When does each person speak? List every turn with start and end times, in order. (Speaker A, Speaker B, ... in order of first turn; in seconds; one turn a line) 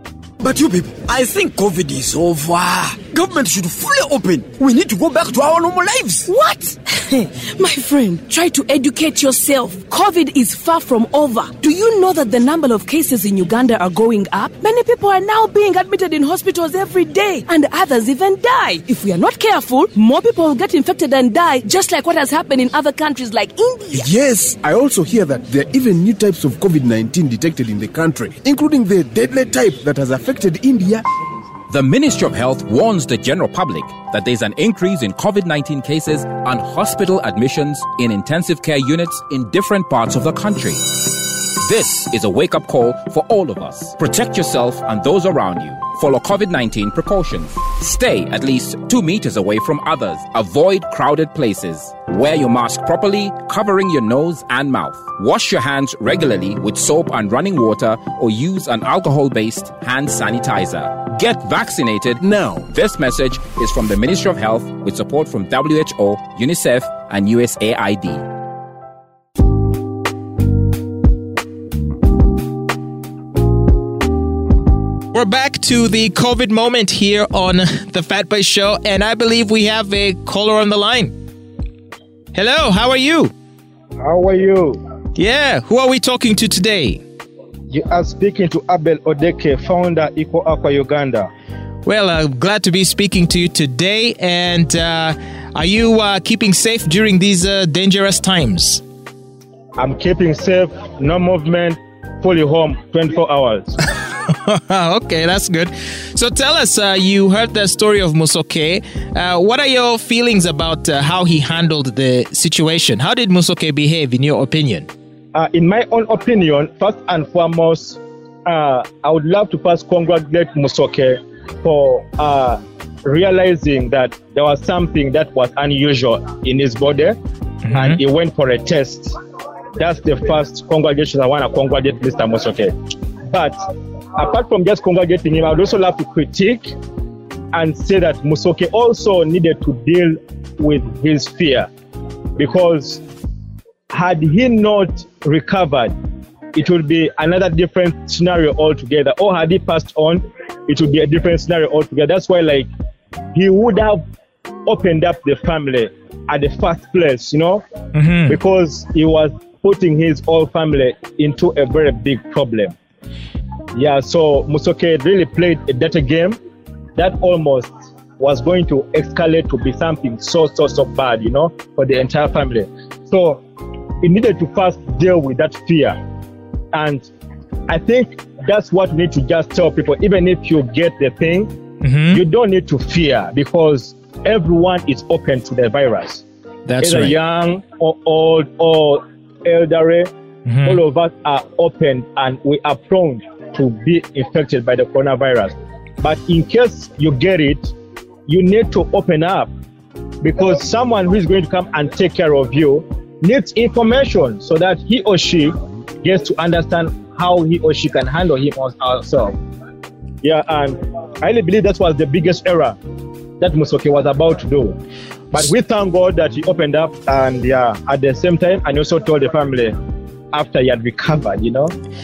Speaker A: 0.6-2.4
Speaker A: 3.0-3.4
Speaker A: 4.1-5.7
Speaker B: 6.2-24.1
Speaker C: 23.9-31.0
Speaker D: 31.7-68.2
Speaker C: 62.2-62.7
Speaker E: 75.1-81.1
Speaker E: 82.3-83.3
Speaker F: 84.0-84.8
Speaker E: 85.2-87.0
Speaker F: 87.7-91.3
Speaker E: 91.8-98.8
Speaker F: 99.8-103.8
Speaker E: 104.3-114.9
Speaker F: 115.3-127.2
Speaker E: 127.6-128.0
Speaker F: 127.7-129.1
Speaker F: 129.8-132.7
Speaker F: 133.3-133.6
Speaker F: 134.2-136.7
Speaker F: 137.5-141.7
Speaker F: 142.4-143.0
Speaker F: 143.9-145.9
Speaker F: 146.5-152.7
Speaker F: 153.3-154.0
Speaker F: 154.7-157.6
Speaker E: 157.9-158.4
Speaker F: 158.3-162.7
Speaker F: 163.7-166.4
Speaker F: 166.9-173.4
Speaker F: 174.0-176.0
Speaker F: 176.7-177.1
Speaker F: 177.7-181.5
Speaker E: 181.8-182.2
Speaker F: 182.1-186.2
Speaker E: 186.7-187.2
Speaker F: 186.8-190.1
Speaker E: 190.4-190.8
Speaker F: 190.6-197.7
Speaker F: 198.3-199.5
Speaker F: 200.2-209.4
Speaker F: 210.2-212.8
Speaker F: 213.4-214.8
Speaker F: 215.3-219.7
Speaker F: 220.3-221.7